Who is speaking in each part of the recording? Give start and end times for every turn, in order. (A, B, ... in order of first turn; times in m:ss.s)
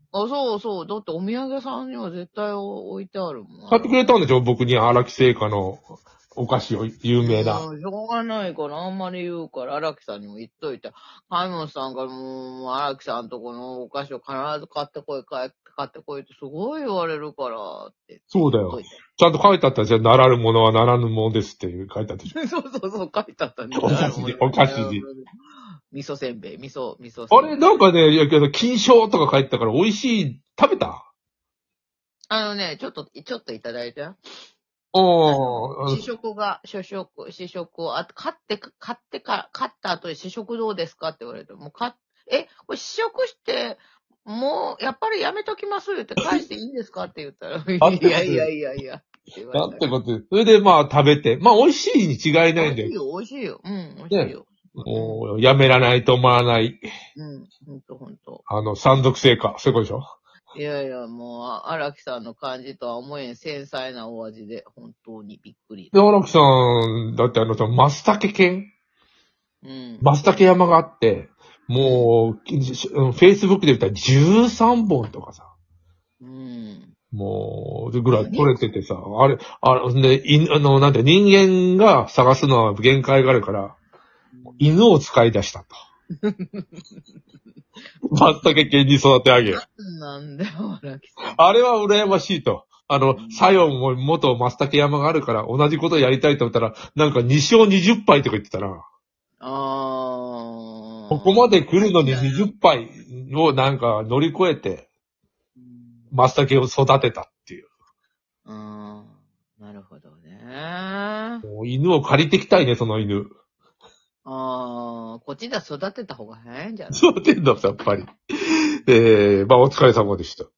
0:00.1-0:04.0 A
0:03.7-0:07.6 B
0:07.2-0:19.0 A
0:18.3-0:22.4 B
0:22.3-0:25.3 A
0:23.8-0:25.0 B
0:25.9-0:27.6 A
0:27.3-0:31.1 B
0:32.3-0:34.2 A
0:34.9-0:36.1 B
0:35.2-0:49.9 A
0:47.8-0:48.5 B
0:49.5-0:52.9 B
0:52.6-0:55.2 A
0:54.1-0:56.8 B
0:57.1-0:58.4 A
0:58.5-1:00.1 B
1:00.5-1:05.9 A
1:05.9-1:08.7 B
1:09.6-1:10.1 A
1:10.0-1:15.5 B
1:11.8-1:12.1 A
1:16.2-1:16.9 A
1:17.1-1:23.8 B
1:18.1-1:18.6 A
1:24.3-1:24.7 A
1:24.6-1:25.7 B
1:26.2-1:27.0 A
1:28.0-1:29.6 B
1:29.5-1:31.5 A
1:31.3-1:38.8 B
1:33.1-1:33.5 A
1:39.4-1:42.5 A
1:41.1-1:44.9 B
1:45.6-1:46.1 A
1:46.1-1:47.7 B
1:48.5-1:51.4 A
1:51.4-1:53.3 B
1:54.2-1:57.2 A
1:56.9-2:00.5 B